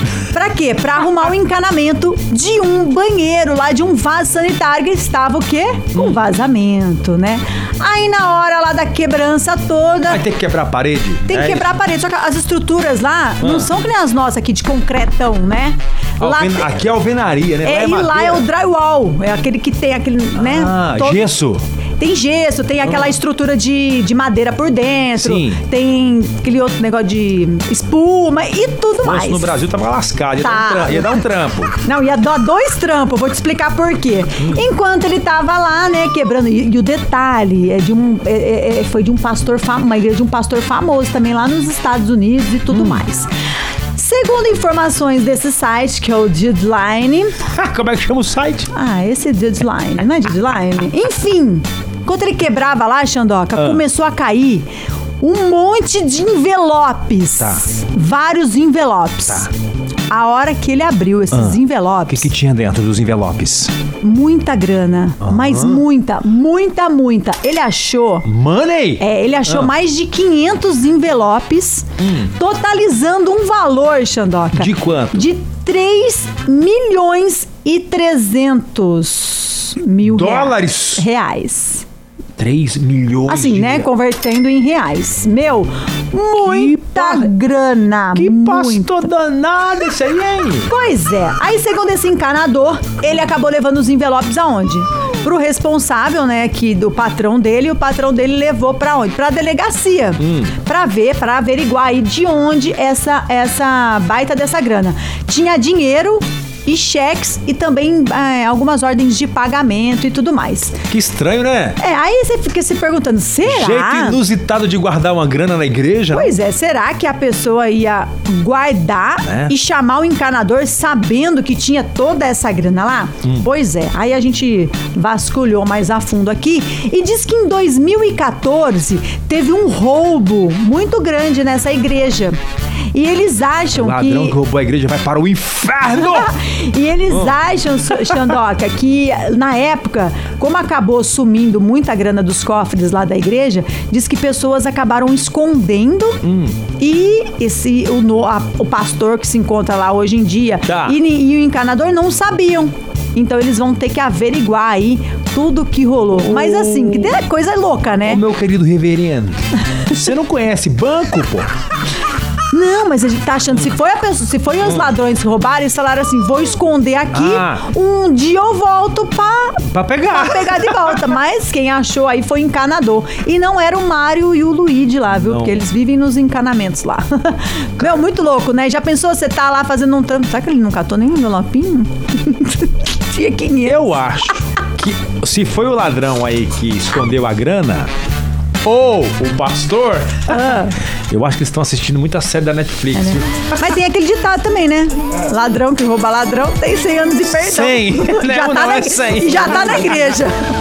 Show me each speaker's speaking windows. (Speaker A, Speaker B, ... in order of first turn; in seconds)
Speaker A: 0.2-10.2, 11.3-16.7, 17.6-21.3, 22.0-29.5, 30.4-31.2, 31.8-43.3, 44.0-47.4, 48.7-54.7, 55.2-59.5, 60.1-62.3, 64.0-68.3, 69.0-81.8, 83.3-89.1, 90.7-110.8, 111.8-114.2, 116.1-132.4, 132.9-134.4, 136.0-146.2, 146.8-158.2, 162.5-184.0, 190.3-190.8, 192.9-200.4
Speaker B: 6.0-6.2, 10.0-11.7, 13.4-13.7, 16.2-18.4, 20.4-21.6, 22.9-23.1, 25.2-25.6, 29.0-31.8, 42.7-43.0, 47.5-48.7, 53.6-53.8, 57.4-57.7, 61.3-61.6, 62.1-63.7, 65.2-65.8, 68.3-69.7, 72.0-72.3, 74.5-75.3, 80.0-81.1, 82.4-83.9, 86.4-87.3, 88.2-90.7, 100.2-100.5, 110.9-111.8, 113.5-116.3, 119.2-119.5, 133.7-136.4, 137.1-137.4, 137.9-138.3, 146.2-146.6, 150.7-151.0, 156.2-157.2, 158.1-161.5, 167.1-167.7, 169.7-171.0, 175.2-175.6, 183.6-187.9, 188.6-193.5, 197.3-200.2